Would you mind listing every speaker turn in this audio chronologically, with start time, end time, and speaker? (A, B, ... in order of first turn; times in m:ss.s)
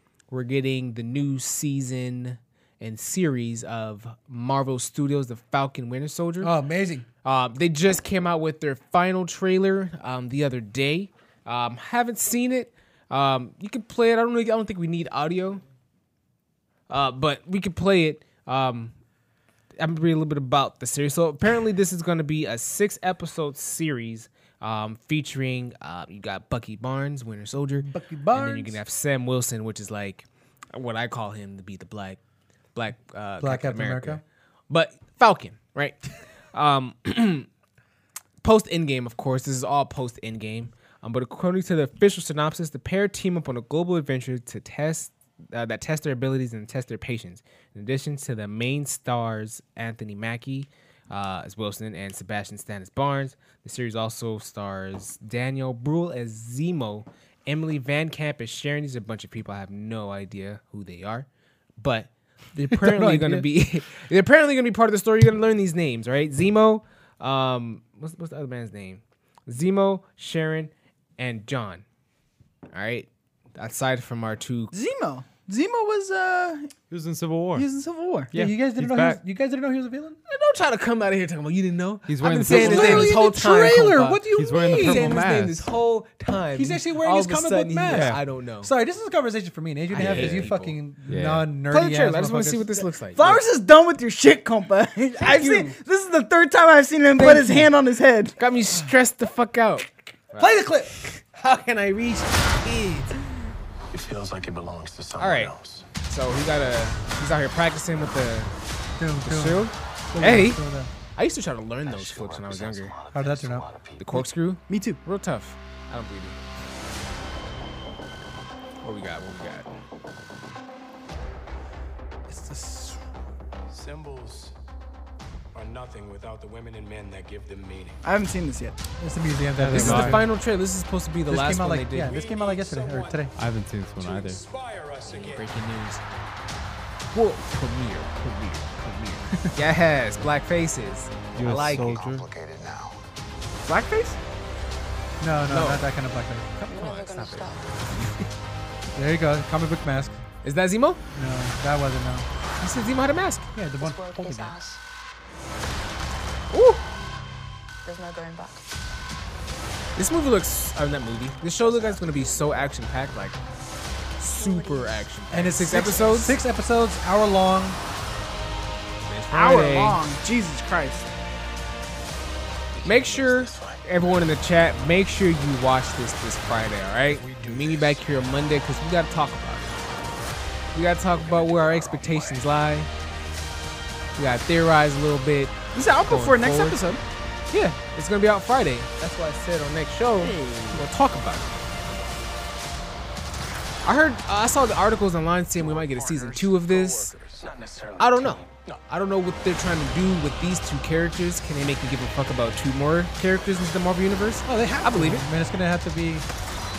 0:00.3-0:06.5 A
0:06.4-0:07.0 B
0:07.2-0:15.6 A
0:16.9-0:18.9 A
0:19.8-0:32.2 A
0:27.8-0:28.8 B
0:32.7-0:37.5 A
0:33.4-0:34.2 B
0:38.4-1:01.3 A
1:01.8-1:11.8 A
1:02.7-1:03.5 B
1:12.7-1:14.7 A
1:14.7-1:16.7 C
1:16.9-1:17.6 D
1:17.5-1:18.3 C
1:18.3-1:19.2 D
1:18.3-1:20.2 B
1:20.3-1:28.7 A
1:22.1-1:23.2 D
1:22.5-1:25.3 B
1:24.3-1:25.7 D
1:26.5-1:32.8 B
1:27.8-1:28.2 D
1:29.9-1:30.8 A
1:30.0-1:30.5 D
1:31.1-1:31.5 D
1:31.7-1:33.4 A
1:33.1-1:38.4 C
1:35.2-1:35.7 A
1:37.2-1:37.6 A
1:38.4-1:43.2 A
1:40.4-1:41.0 B
1:43.9-1:45.9 E
1:45.2-1:48.5 A
1:49.0-1:50.9 B
1:49.2-1:50.6 A
1:51.2-1:53.0 A
1:51.8-1:54.0 E
1:53.1-1:53.6 B
1:54.0-1:56.4 A
1:54.7-1:55.0 C
1:58.8-1:59.7 A
2:02.3-2:03.0 B
2:03.7-2:04.5 E
2:05.5-2:08.0 E
2:08.0-2:08.8 C
2:09.0-2:10.3 B
2:09.6-2:10.3 D
2:09.7-2:12.2 A
2:11.3-2:13.3 B
2:12.0-2:13.3 E
2:13.4-2:14.4 D
2:14.0-2:15.6 E
2:15.0-2:16.0 A
2:17.1-2:22.1 A
2:21.3-2:22.3 D
2:21.5-2:23.0 E
2:23.6-2:24.2 C
2:25.2-2:26.7 B
2:25.5-2:25.8 A
2:26.6-2:28.2 A
2:26.7-2:27.7 F
2:28.9-2:30.2 B
2:30.4-2:31.0 A
2:31.1-2:32.3 B
2:32.6-2:33.5 A
2:33.5-2:34.6 B
2:33.8-2:34.8 F
2:36.5-2:36.8 A
2:37.8-2:38.6 F
2:40.0-2:43.4 A
2:44.2-2:46.4 A
2:44.3-2:45.0 F
2:45.3-2:47.8 B
2:49.0-2:50.0 A
2:49.3-2:51.1 C
2:52.7-2:54.4 E
2:52.8-2:59.7 A
2:57.0-2:58.4 E
3:00.7-3:02.9 A
3:01.1-3:02.6 E
3:04.2-3:06.8 A
3:05.7-3:07.0 C
3:07.5-3:11.6 A
3:10.2-3:10.8 C
3:13.8-3:17.2 A
3:15.5-3:18.8 E
3:18.0-3:25.2 A
3:24.4-3:26.2 B